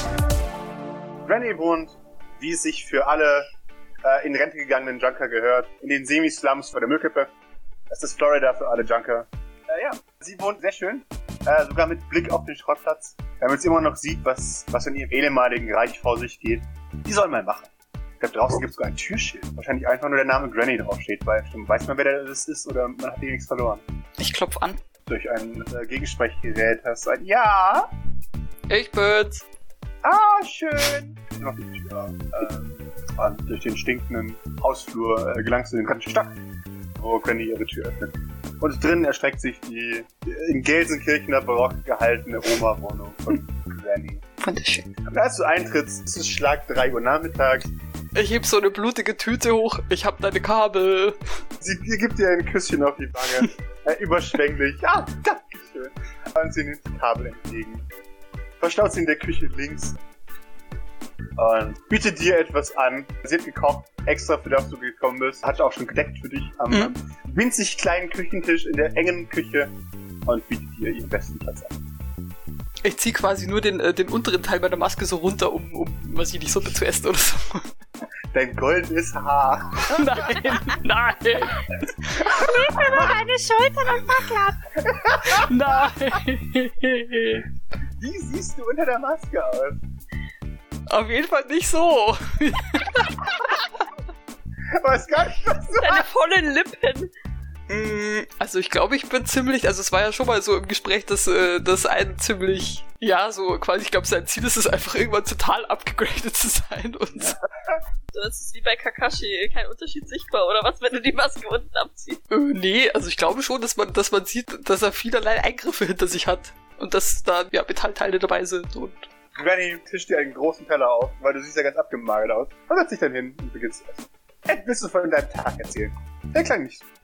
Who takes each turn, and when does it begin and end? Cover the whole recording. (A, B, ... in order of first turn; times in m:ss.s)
0:01.2-0:03.5 A
0:04.0-0:07.3 A
0:07.9-0:23.8 A
0:24.2-0:24.8 B
0:25.1-0:27.9 A
0:28.7-0:29.4 B
0:30.0-0:36.4 A
0:37.0-0:44.2 A
0:44.4-0:44.9 B
0:45.1-0:47.7 A
0:48.1-0:51.2 B
0:51.6-0:57.8 A
0:58.6-1:00.0 A
1:01.4-1:09.7 A
1:10.2-1:11.8 A
1:12.8-1:17.6 B
1:18.3-1:20.6 A
1:19.9-1:23.1 B
1:22.2-1:23.1 A
1:23.1-1:24.2 C
1:23.8-1:24.4 B
1:24.8-1:25.5 A
1:25.2-1:27.5 B
1:28.0-1:29.8 A
1:30.9-1:33.1 B
1:34.7-1:36.0 A
1:35.8-1:37.1 C
1:37.7-1:47.4 B
1:48.1-1:52.2 C
1:52.3-1:59.1 B
1:59.4-2:06.8 A